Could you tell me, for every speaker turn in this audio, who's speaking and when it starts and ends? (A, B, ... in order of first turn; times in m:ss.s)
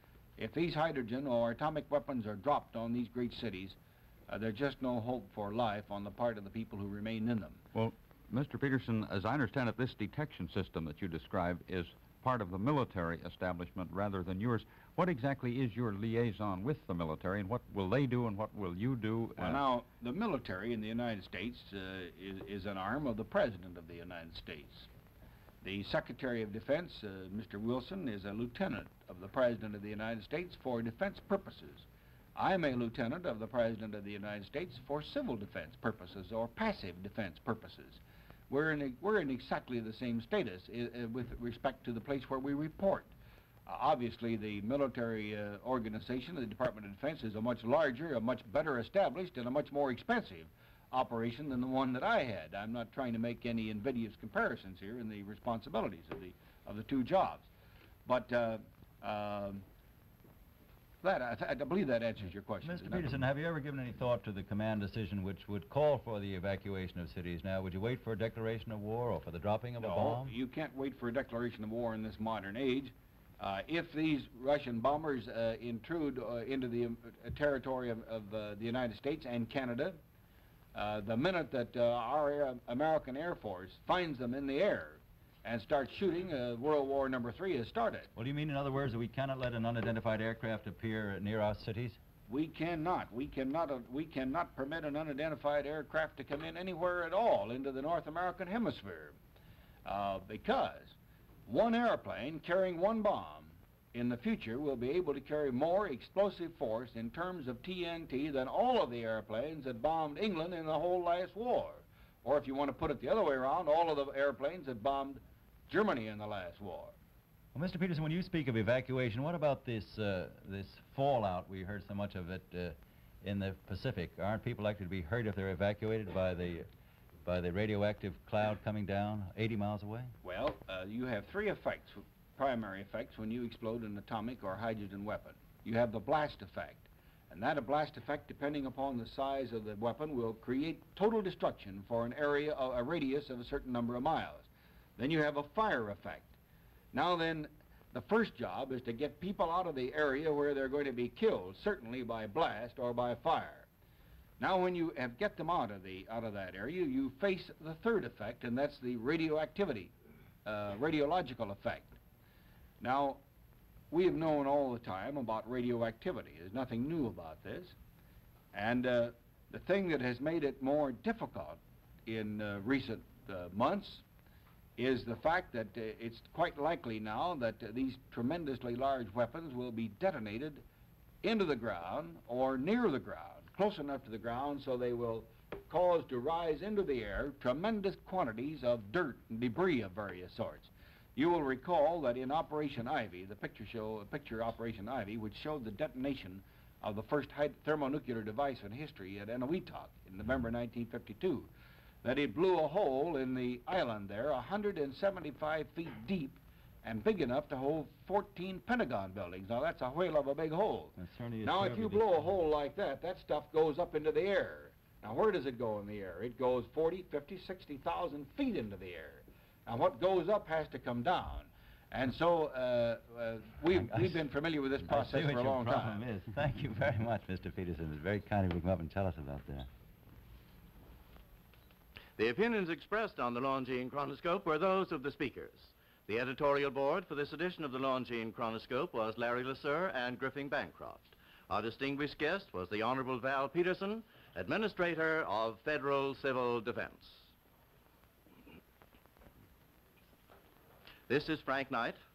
0:00.4-0:07.6 A
0:07.7-0:19.6 B
0:19.4-0:24.9 A
0:25.6-0:43.1 A
0:43.7-0:57.5 A
0:58.0-0:59.6 A
1:01.0-1:03.1 A
1:02.6-1:10.3 C
1:09.8-1:20.0 A
1:20.7-1:28.1 A
1:28.2-1:32.0 C
1:32.3-1:39.2 A
1:39.8-1:41.0 A
1:41.5-1:56.9 A
1:57.5-2:06.7 C
2:07.2-2:10.1 C
2:10.2-2:26.3 A
2:26.9-2:33.7 A
2:34.4-2:39.9 A
2:40.4-2:42.0 A
2:42.8-2:43.2 A
2:43.9-2:47.7 A
2:48.5-2:54.0 A
2:54.8-3:00.6 A
3:01.2-3:21.5 A
3:22.0-3:46.0 A
3:31.0-3:32.1 C
3:43.7-3:44.2 C
3:44.8-3:49.7 C
3:52.2-4:07.3 D
4:11.1-4:12.0 D